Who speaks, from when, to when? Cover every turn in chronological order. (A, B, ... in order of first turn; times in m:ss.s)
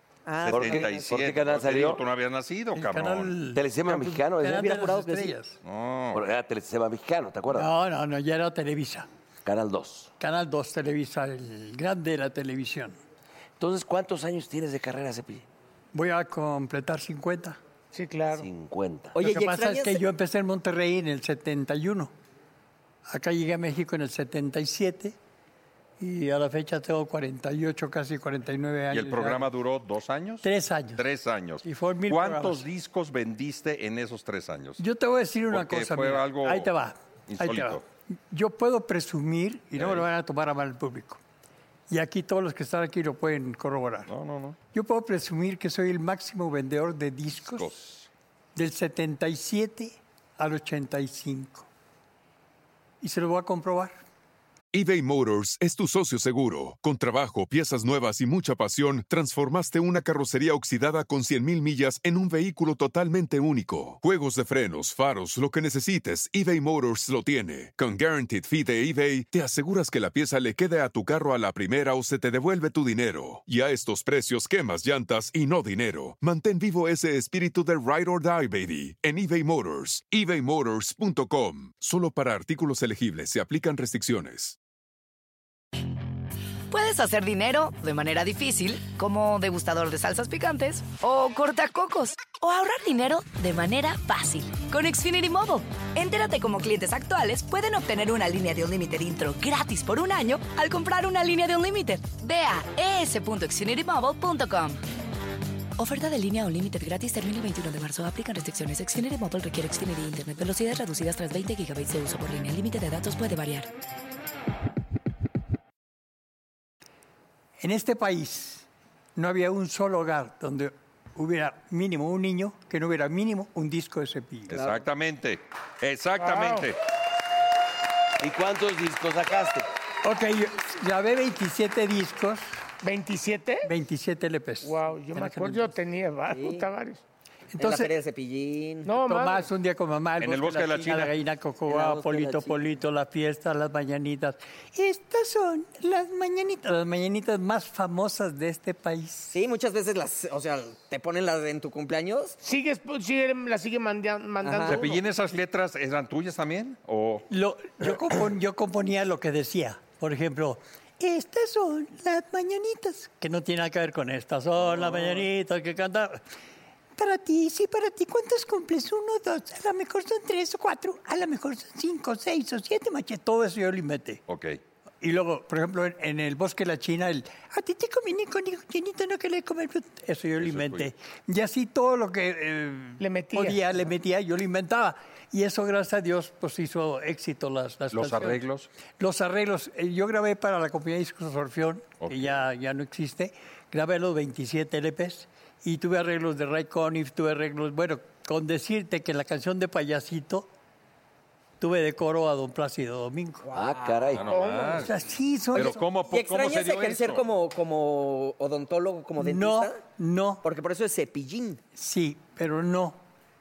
0:00.2-0:01.1 A
0:00.4-0:03.4 B
0:00.5-0:02.0 C
0:02.7-0:05.6 D
0:03.5-0:04.8 C
0:04.4-0:05.4 A
0:05.6-0:06.2 B
0:06.1-0:07.7 C
0:07.5-0:09.1 D
0:09.4-0:10.1 C
0:10.2-0:13.0 D
0:13.6-0:15.4 C
0:15.9-0:17.6 D
0:17.9-0:18.5 E
0:18.4-0:19.2 C
0:19.1-0:20.0 A
0:19.2-0:22.1 D
0:23.1-0:25.2 D
0:26.0-0:29.5 D
0:28.9-0:34.8 B
0:30.4-0:31.0 D
0:31.6-0:32.6 D
0:34.8-0:41.2 D
0:35.5-0:36.7 B
0:37.3-0:37.8 B
0:39.8-0:40.0 B
0:41.9-0:44.1 D
0:44.1-0:44.6 B
0:44.7-0:47.7 D
0:47.4-0:48.1 B
0:48.6-0:51.7 D
0:53.0-0:53.9 D
0:54.7-1:24.6 F
1:26.7-1:44.8 G
1:45.8-1:53.7 G
1:57.6-2:04.5 D
2:04.5-2:06.8 B
2:06.2-2:06.7 E
2:08.2-2:09.6 C
2:10.0-2:12.5 D
2:12.8-2:13.7 E
2:13.6-2:15.7 D
2:14.6-2:17.0 E
2:16.3-2:16.6 A
2:17.5-2:17.9 D
2:17.6-2:18.9 A
2:18.9-2:19.5 E
2:19.0-2:29.4 D
2:20.2-2:21.1 B
2:21.7-2:22.6 A
2:29.3-2:32.4 A
2:32.4-2:35.0 E
2:34.4-2:34.8 A
2:34.7-2:37.2 B
2:37.3-2:46.2 D
2:47.0-2:54.2 D
2:54.3-2:54.6 B
2:55.0-3:08.4 D
3:00.4-3:00.9 B
3:03.0-3:03.6 E
3:07.9-3:08.7 B
3:09.0-3:20.5 D
3:12.0-3:12.4 B
3:21.6-3:23.5 D
3:23.5-3:23.9 A
3:23.5-3:24.3 C
3:24.1-3:24.9 B
3:24.2-3:24.9 E
3:24.8-3:25.8 D
3:25.5-3:27.2 B
3:26.1-3:29.8 A
3:29.2-3:30.4 D
3:30.4-3:31.6 A
3:31.8-3:33.0 D